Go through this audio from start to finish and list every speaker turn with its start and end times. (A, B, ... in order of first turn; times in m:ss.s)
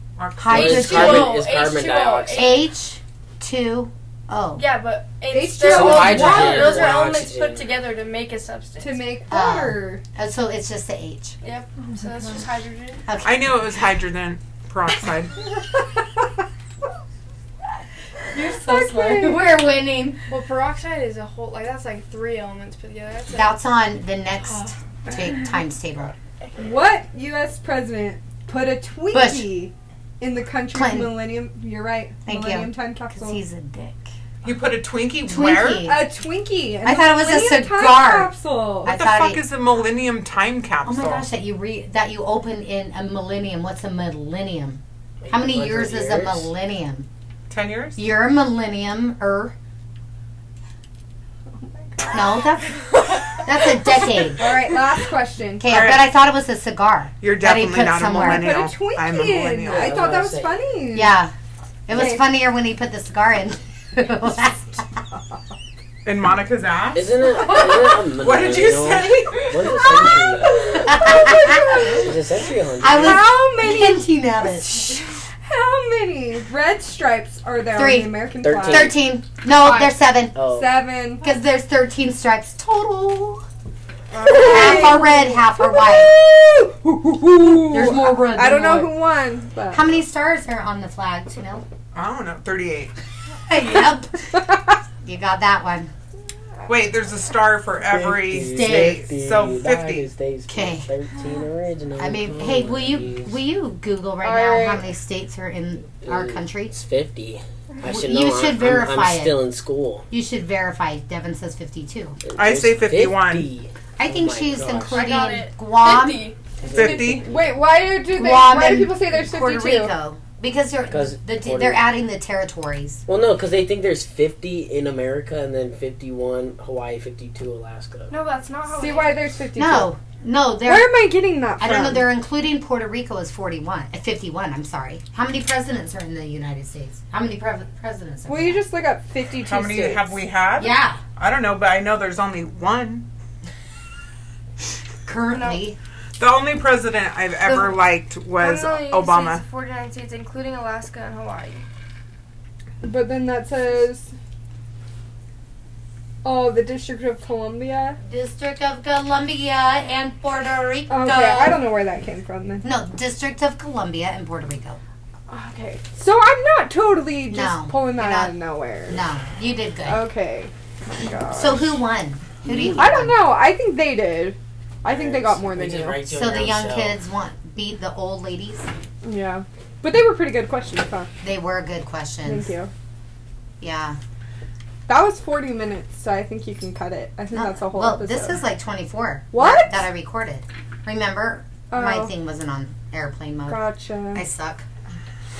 0:00.2-0:01.1 A
0:00.4-0:01.4 B
0:00.4-0:02.6 C
0:00.5-0:02.7 D
0:02.3-0:04.6 B
0:04.6-0:09.1 D
0:05.3-0:06.9 E
0:05.6-0:07.7 C
0:08.8-0:10.0 E
0:09.3-0:11.4 B
0:11.4-0:13.0 D
0:11.8-0:12.4 E
0:13.1-0:13.6 B
0:13.2-0:15.4 A
0:18.3-0:20.2 B
0:18.4-0:19.5 E
0:20.3-0:23.6 D
0:23.3-0:26.1 B
0:24.5-0:25.5 D
0:26.1-0:26.9 D
0:26.6-0:33.4 E
0:29.1-0:29.4 B
0:30.7-0:31.2 B
0:32.2-0:34.1 B
0:34.4-0:35.8 A
0:35.2-0:36.0 B
0:35.8-0:38.9 E
0:36.8-0:38.3 B
0:38.8-0:39.4 B
0:38.8-0:41.3 A
0:40.8-0:47.1 B
0:45.2-0:46.5 C
0:47.5-0:48.0 A
0:48.0-0:49.5 B
0:51.6-0:52.6 E
0:52.1-0:54.5 B
0:54.3-0:55.6 E
0:55.6-0:58.5 B
0:55.7-0:56.1 A
0:57.2-1:00.0 A
0:58.1-1:01.2 E
0:59.6-1:00.5 C
1:00.9-1:01.3 B
1:01.9-1:04.8 B
1:01.9-1:02.2 E
1:06.0-1:10.1 A
1:06.9-1:10.9 C
1:09.6-1:12.2 E
1:10.8-1:11.9 B
1:11.8-1:13.2 C
1:12.8-1:15.0 B
1:12.8-1:19.0 E
1:17.7-1:20.3 B
1:18.4-1:19.0 C
1:19.6-1:19.9 E
1:20.3-1:20.8 C
1:20.4-1:21.3 E
1:21.2-1:23.4 B
1:24.1-1:24.8 A
1:24.2-1:29.8 E
1:24.3-1:26.1 B
1:27.5-1:28.9 B
1:29.7-1:31.6 B
1:31.9-1:32.9 A
1:33.5-1:34.4 B
1:35.0-1:35.9 B
1:36.6-1:40.1 A
1:37.8-1:43.4 C
1:38.4-1:39.0 B
1:40.5-1:40.9 B
1:42.0-1:46.7 B
1:44.2-1:44.9 E
1:46.0-1:50.1 C
1:47.8-1:49.4 B
1:50.1-1:52.2 B
1:52.3-1:55.1 C
1:52.3-1:53.5 A
1:54.0-1:56.3 B
1:54.9-1:56.4 D
1:56.6-1:57.6 C
1:56.7-1:57.3 A
1:56.8-1:59.9 E
1:58.1-2:03.0 B
2:00.9-2:01.9 C
2:03.0-2:08.1 C
2:08.1-2:09.3 D
2:08.7-2:09.9 E
2:09.6-2:10.9 B
2:10.6-2:12.1 E
2:11.6-2:18.6 B
2:18.2-2:20.2 E
2:19.4-2:23.1 A
2:20.6-2:21.0 B
2:25.0-2:25.8 B
2:25.3-2:25.6 D
2:26.2-2:29.4 A
2:28.4-2:31.6 D
2:32.8-2:34.1 E
2:36.2-2:38.0 E
2:38.0-2:41.6 B
2:40.9-2:42.6 E
2:42.6-2:44.8 B
2:45.3-2:49.0 E
2:47.3-2:48.3 B
2:48.9-2:50.0 B
2:49.8-2:51.8 E
2:51.3-2:53.1 B
2:52.4-2:53.0 C
2:52.7-2:56.0 E
2:54.8-2:57.0 C
2:56.1-2:58.7 B
2:59.0-3:01.1 E
3:01.2-3:02.5 B
3:02.2-3:02.7 E
3:03.6-3:04.0 B
3:04.9-3:08.4 E
3:07.3-3:14.6 B
3:09.3-3:09.9 E
3:11.7-3:12.1 E
3:13.5-3:14.2 E